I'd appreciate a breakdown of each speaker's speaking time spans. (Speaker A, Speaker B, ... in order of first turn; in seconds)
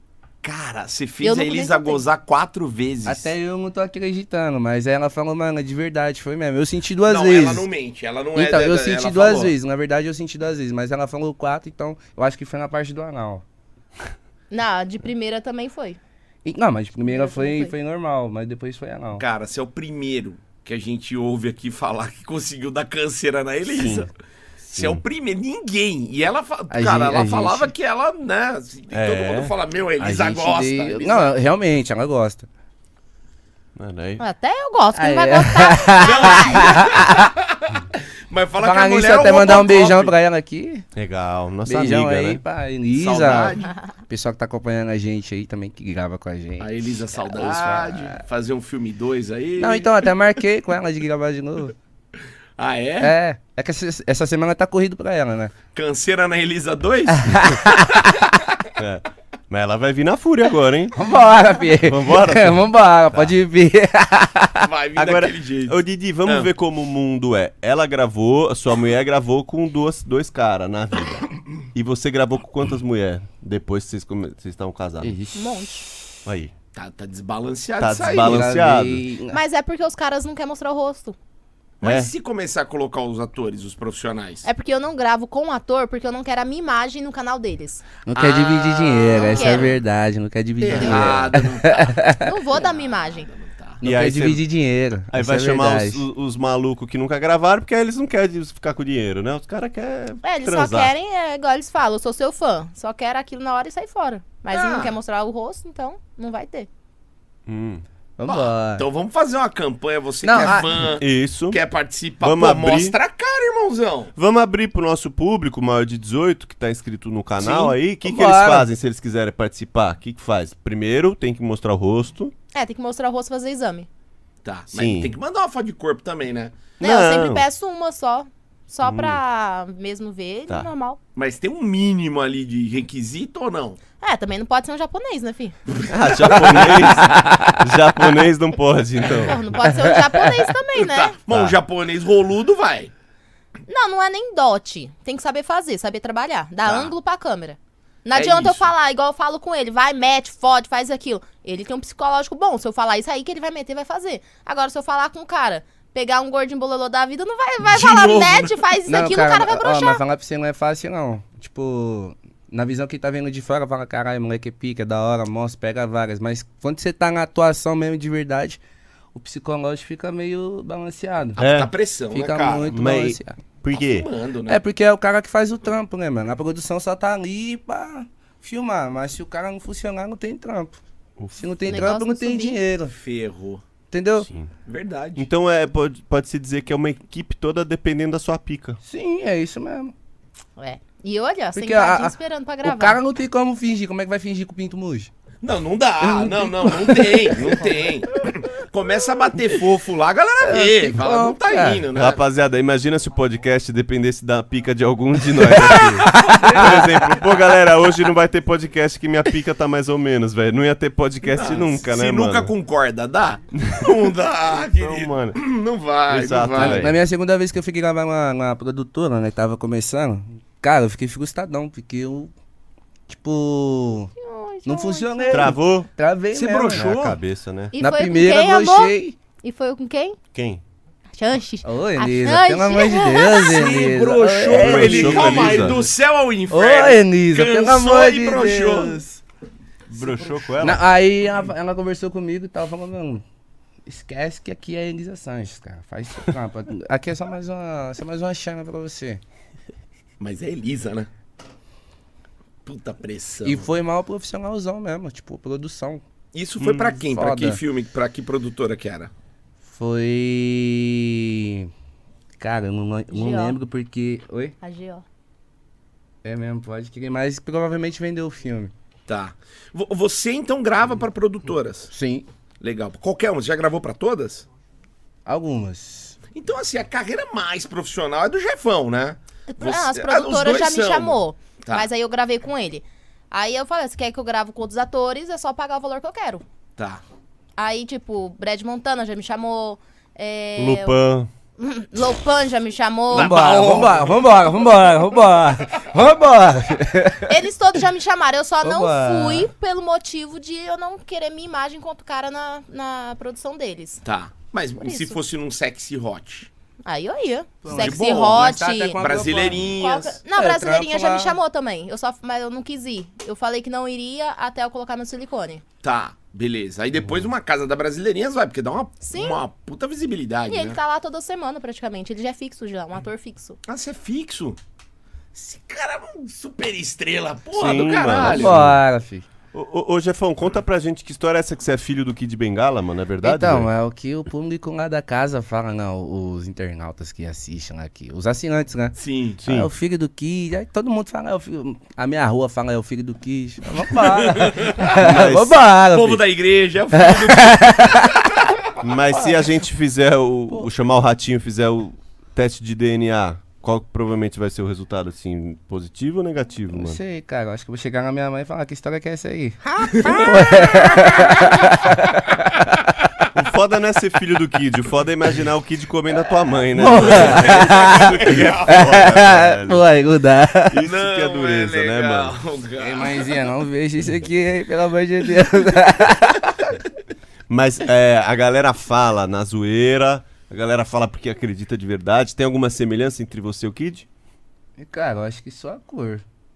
Speaker A: 0.4-3.3, 7.0-9.5, 19.2-24.1, 24.7-31.3, 36.0-40.1, 42.9-43.7, 46.6-50.0, 52.6-53.1, 55.7-58.3, 64.6-66.5, 76.7-78.5, 81.8-84.5, 88.1-89.8, 90.6-93.8, 104.5-105.0, 108.2-114.1, 117.4-117.7, 124.4-126.7, 131.2-133.8, 135.7-136.7, 140.7-142.9, 146.6-146.9, 148.1-148.7, 157.6-158.6, 171.4-172.8, 173.7-174.6, 182.9-183.6, 184.7-185.3, 195.4-202.2, 206.1-206.8, 211.2-216.9, 226.3-227.2, 233.4-239.0, 239.9-240.3, 250.2-251.1, 252.7-253.7, 256.3-259.1, 269.1-271.9, 272.6-274.4, 276.3-281.9, 286.8-287.0, 293.1-294.2, 304.0-306.5, 307.7-310.2, 315.8-320.8, 323.6-324.6, 325.3-328.6, 338.9-339.4, 344.1-345.0, 345.9-348.5, 359.9-361.7, 362.3-362.8, 366.9-368.9, 370.8-373.3
Speaker B: 1.2-2.0, 14.5-16.0, 17.1-17.7, 34.2-36.7, 75.3-75.8, 79.3-81.2, 84.4-87.8, 89.1-89.7, 90.7-91.1, 92.2-93.3, 100.2-106.7, 122.5-123.9, 126.8-131.0, 134.0-135.6, 139.2-141.2, 143.7-160.0, 181.7-182.6, 190.6-193.0, 224.2-225.5, 227.7-230.2, 231.1-233.6, 263.1-263.6, 264.6-265.0, 279.5-286.4, 287.6-291.0, 291.6-293.8, 297.3-304.0, 304.8-305.2, 306.8-309.0, 309.8-315.6, 319.0-319.4, 320.5-323.6, 359.7-360.7
Speaker C: 3.0-7.7, 8.3-13.4, 16.4-19.2, 26.7-27.7, 30.0-32.5, 34.9-37.3, 38.6-40.8, 41.6-48.2, 49.6-51.7, 53.0-55.5, 57.1-58.1, 60.9-64.7, 75.0-75.7, 78.2-79.4, 88.0-92.3, 93.8-96.0, 108.2-108.8, 110.2-110.8, 118.0-118.7, 136.8-137.6, 139.7-140.3, 158.9-168.6, 169.1-171.4, 172.1-173.4, 174.5-180.8, 181.3-182.9, 183.9-184.3, 188.8-189.9, 191.5-195.1, 196.0-197.6, 200.4-201.8, 205.4-206.9, 216.6-222.3, 223.1-224.1, 224.6-226.9, 227.8-229.2, 231.6-235.8, 236.5-239.2, 240.6-243.2, 243.8-249.2, 253.4-256.0, 256.8-257.6, 259.6-261.7, 262.4-264.5, 266.2-268.7, 271.9-272.2, 275.2-276.2, 293.1-297.4, 298.6-299.5, 307.6-309.7, 310.3-311.4, 328.2-329.3, 333.2-346.2, 346.9-348.3, 356.7-362.3, 366.7-370.8, 372.8-376.7, 384.8-386.2
Speaker D: 23.7-24.1, 24.7-25.0, 28.9-29.5, 33.8-34.2, 40.9-42.4, 58.8-61.0, 61.8-63.3, 65.0-75.2, 76.2-76.5, 77.8-79.0, 81.8-82.1, 93.8-94.4, 95.1-100.9, 107.5-107.8, 111.0-111.6, 112.2-112.9, 114.2-122.3, 124.7-125.1, 126.8-127.4, 128.8-129.2, 135.9-139.4, 141.3-141.6, 171.4-171.7, 172.7-174.1, 185.2-188.8, 201.9-212.5, 213.6-213.9, 214.8-215.4, 216.1-217.0, 225.3-225.9, 226.7-227.7, 230.3-230.6, 234.5-235.8, 239.9-240.8, 290.6-291.3, 327.5-328.8, 329.5-333.7, 339.4-339.7, 344.9-345.6, 348.8-357.0, 363.3-369.8, 370.7-372.3, 377.5-384.1